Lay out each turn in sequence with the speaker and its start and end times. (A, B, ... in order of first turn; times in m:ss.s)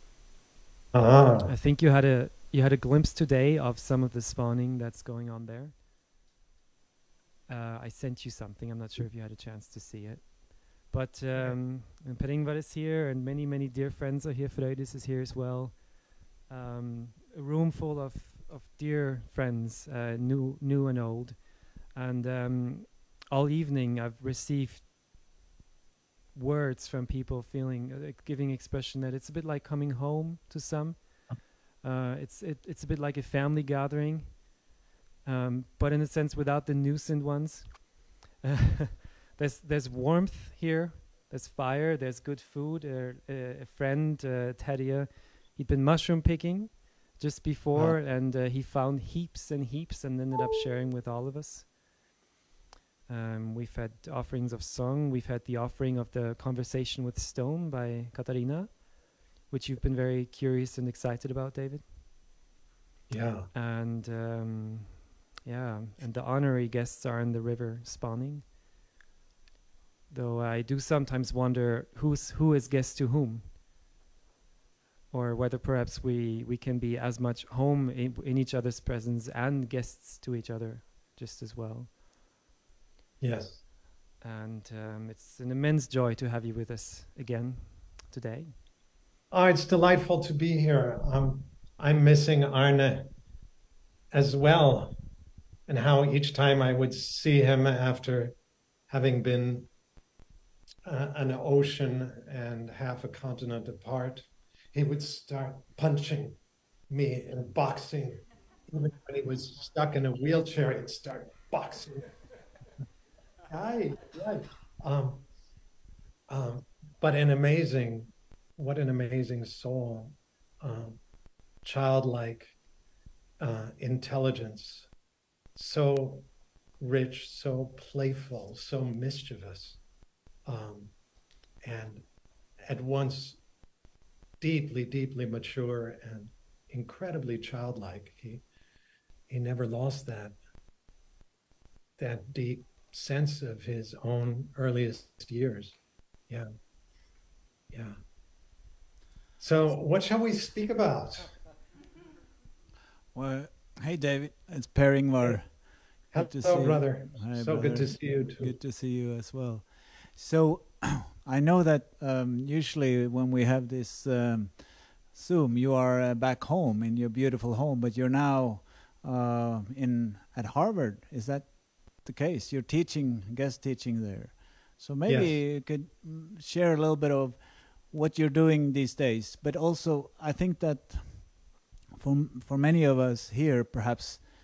0:00.9-0:01.5 A
0:01.4-0:05.8 B
0:07.5-0:15.9 B
0:16.5-0:24.9 B
0:26.3-0:34.5 B
0:35.2-0:51.7 B
0:53.1-0:58.9 B
0:59.4-1:01.9 B
1:03.1-1:03.5 A
1:03.5-1:08.5 B
1:10.1-1:13.6 B
1:15.1-1:22.0 B
1:23.2-1:23.6 A
1:24.2-1:28.6 B
1:29.3-1:33.1 A
1:34.1-1:35.0 A
1:35.7-1:38.3 A
1:38.9-1:39.7 A
1:40.8-1:46.4 A
1:46.9-1:52.1 A
1:53.5-1:55.3 A
1:56.3-2:01.0 A
2:01.6-2:02.6 A
2:03.4-2:04.9 A
2:05.6-2:06.3 A
2:06.8-2:09.8 A
2:10.4-2:10.9 A
2:11.6-2:12.0 A
2:12.6-2:13.4 A
2:14.4-2:18.4 A
2:19.3-2:20.4 A
2:22.0-2:25.8 A
2:27.7-2:28.0 A
2:29.4-2:31.4 A
2:33.1-3:04.3 C
2:36.1-2:38.6 A
2:55.1-2:55.4 A